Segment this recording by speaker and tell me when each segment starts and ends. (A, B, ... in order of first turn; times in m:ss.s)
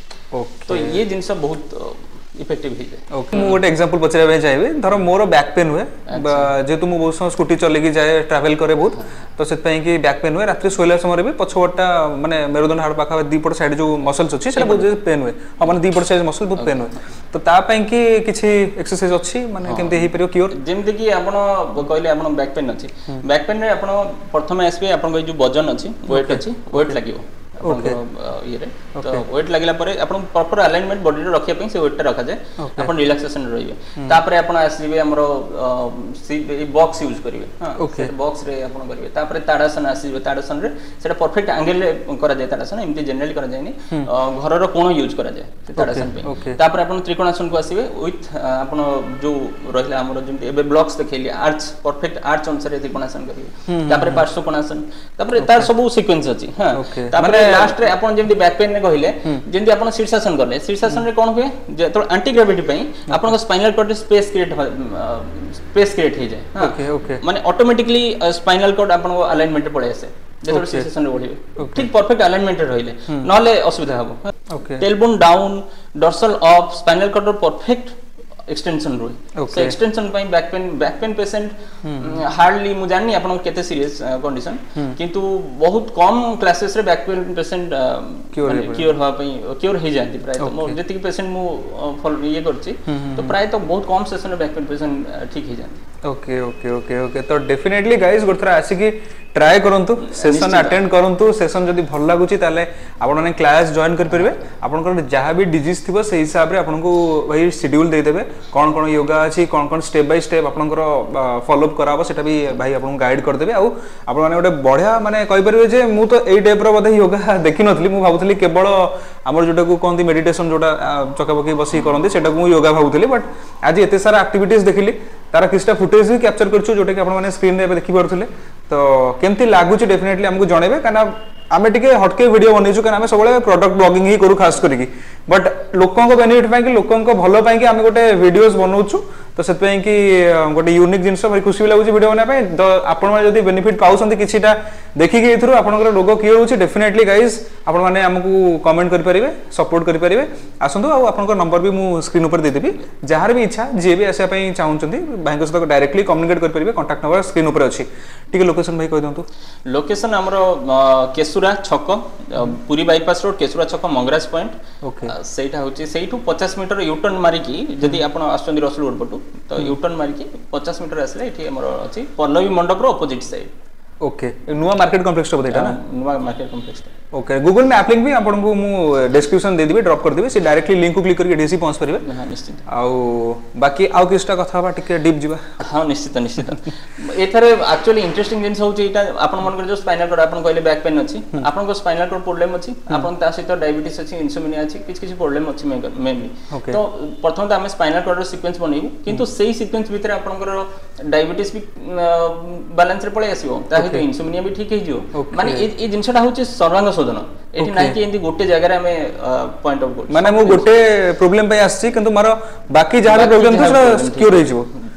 0:00.3-0:01.0 A
0:00.7-0:03.0 B
0:03.1-0:20.6 A
0:06.1-0:06.5 B
0:14.6-0:14.9 B
0:16.6-0:17.0 B
0:19.6-1:18.0 B
0:26.1-0:27.0 A
0:27.6-0:28.0 A
0:29.0-0:29.2 A
0:32.6-0:32.9 A
0:37.8-0:38.1 A
0:45.8-0:46.6 A
0:53.7-0:54.3 A
0:55.4-0:55.7 A
0:56.7-0:57.8 A
1:03.1-1:03.4 A
1:06.6-1:07.2 A
1:10.5-1:10.9 A
1:11.6-1:11.9 A
1:14.5-1:14.8 A
1:18.5-1:35.8 B
1:19.4-1:19.8 A
1:21.8-1:22.2 A
1:28.3-1:28.9 A
1:30.4-1:30.8 A
1:32.9-1:33.4 A
1:36.1-2:39.2 A
1:40.0-1:40.8 B
2:39.7-2:44.5 B
2:44.8-2:45.1 A
2:45.0-2:53.5 B
2:54.0-2:55.8 A
2:55.5-2:56.9 B
2:57.1-3:02.0 A
3:02.0-3:02.6 B
3:02.7-3:05.7 A
3:05.6-3:30.7 B
3:16.5-3:16.8 A
3:23.8-3:24.1 A
3:25.2-3:25.7 A
3:27.6-3:28.0 A
3:30.1-3:34.7 A
3:33.0-3:34.6 B